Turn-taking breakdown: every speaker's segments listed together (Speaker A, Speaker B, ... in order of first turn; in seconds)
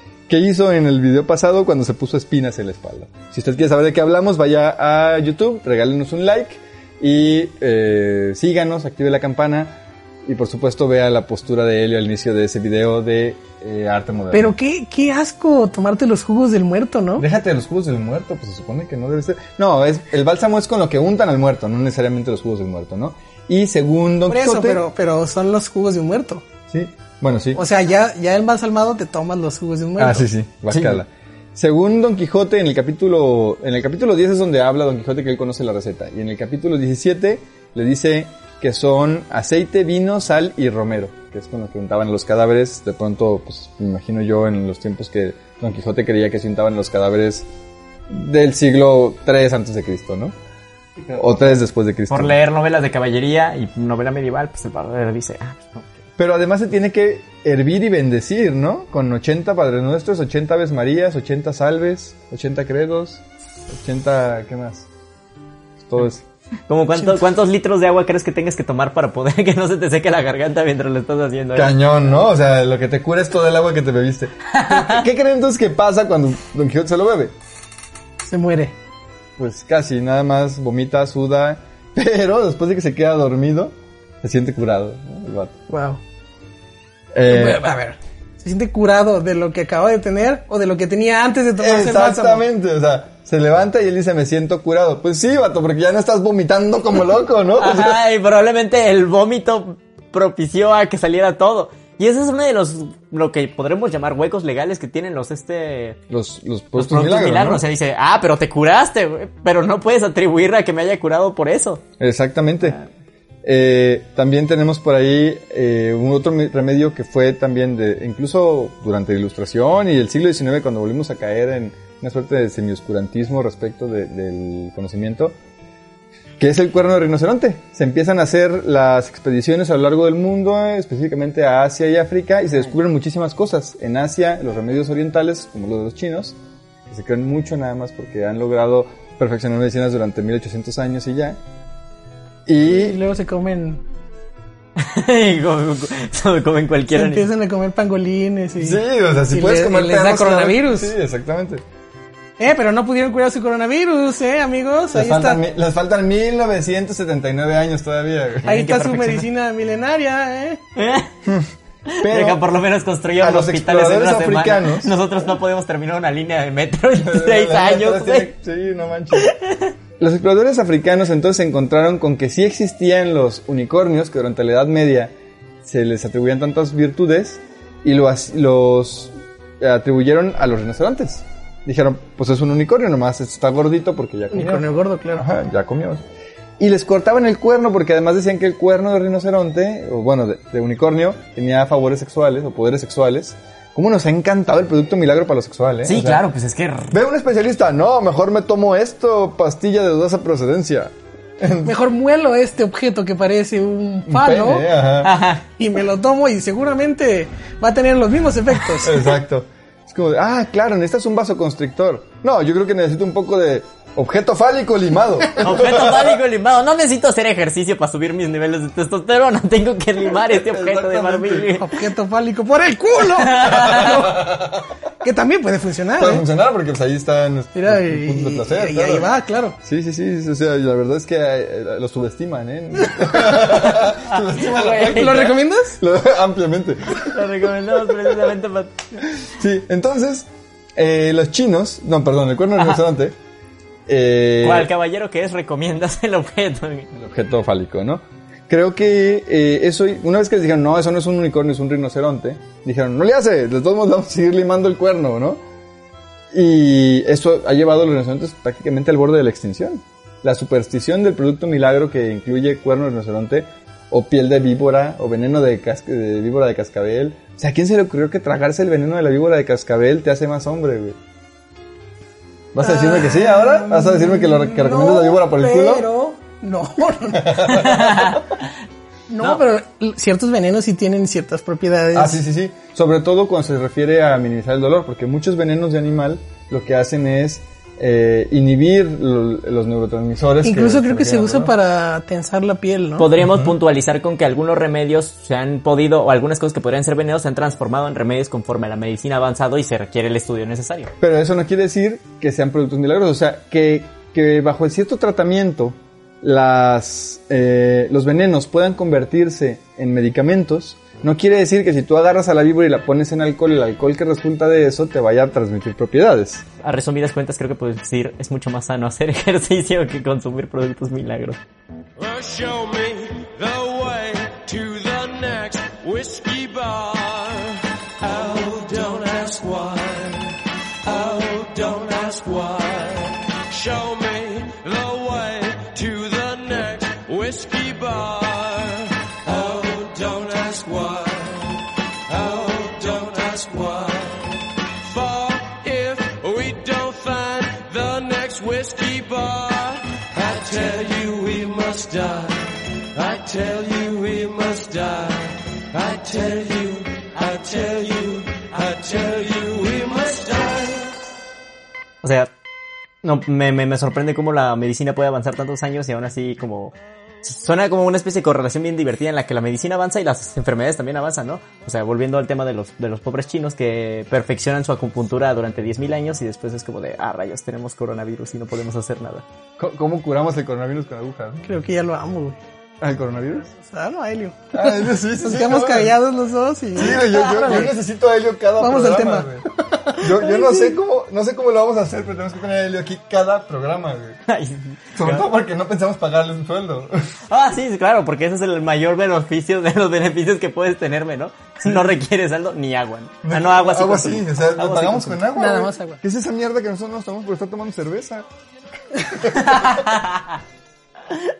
Speaker A: 0.3-14.6, 17.2-24.9, 26.7-27.6, 30.0-47.5, 48.1-50.4, 51.1-52.4, 56.2-64.9, 65.8-66.2, 71.5-77.3, 79.4-85.6, 87.1-87.8, 91.6-98.0, 106.1-107.6, 112.0-112.8, 113.4-125.4, 126.4-136.4, 136.9-141.4, 142.5-143.0, 148.6-151.6, 154.9-158.6, 162.0-162.4, 163.2-164.9, 167.0-169.3, 170.0-186.0, 186.6-196.2, 196.9-201.8, 204.1-205.1, 208.8-216.2, 220.0-221.5, 223.7-224.6, 226.0-229.1, 229.6-238.2, 239.1-243.2, 243.9-244.7, 246.9-255.4, 256.3-271.0, 272.5-275.9, 277.2-278.2, 281.9-291.5, 293.2-293.6, 301.0-316.4, 379.6-381.5, 382.8-383.5, 384.5-386.0, 386.7-394.2, 394.9-397.1, 403.2-408.3, 409.0-410.0
Speaker B: 14.3-17.3, 24.3-26.4, 27.6-30.3, 78.2-78.8, 85.7-86.0, 87.3-92.4, 142.7-143.8, 146.9-150.9, 152.4-155.4, 158.5-160.6, 184.3-185.3, 201.7-204.7, 205.5-209.1, 221.6-224.3, 225.0-226.2, 227.6-229.6, 234.8-235.8, 272.6-277.9, 279.1-282.2, 290.4-293.1, 381.4-382.4, 383.5-387.8, 388.6-390.7, 405.3-406.0
Speaker C: 30.7-31.0, 52.1-55.9, 66.7-71.8, 74.5-75.0, 97.6-106.0, 106.8-111.8, 112.6-112.9, 144.8-147.3, 158.4-159.3, 160.8-161.1, 161.9-168.3, 169.2-169.7, 195.8-196.9, 205.0-205.4, 215.4-221.7, 223.2-223.9, 233.4-235.4, 237.1-239.0, 244.4-246.9, 277.6-278.4, 293.0-300.9, 316.6-321.4, 362.0-362.3, 363.0-379.2, 387.2-387.6, 394.3-395.3, 397.3-405.2, 409.5-410.3
Speaker D: 322.0-360.9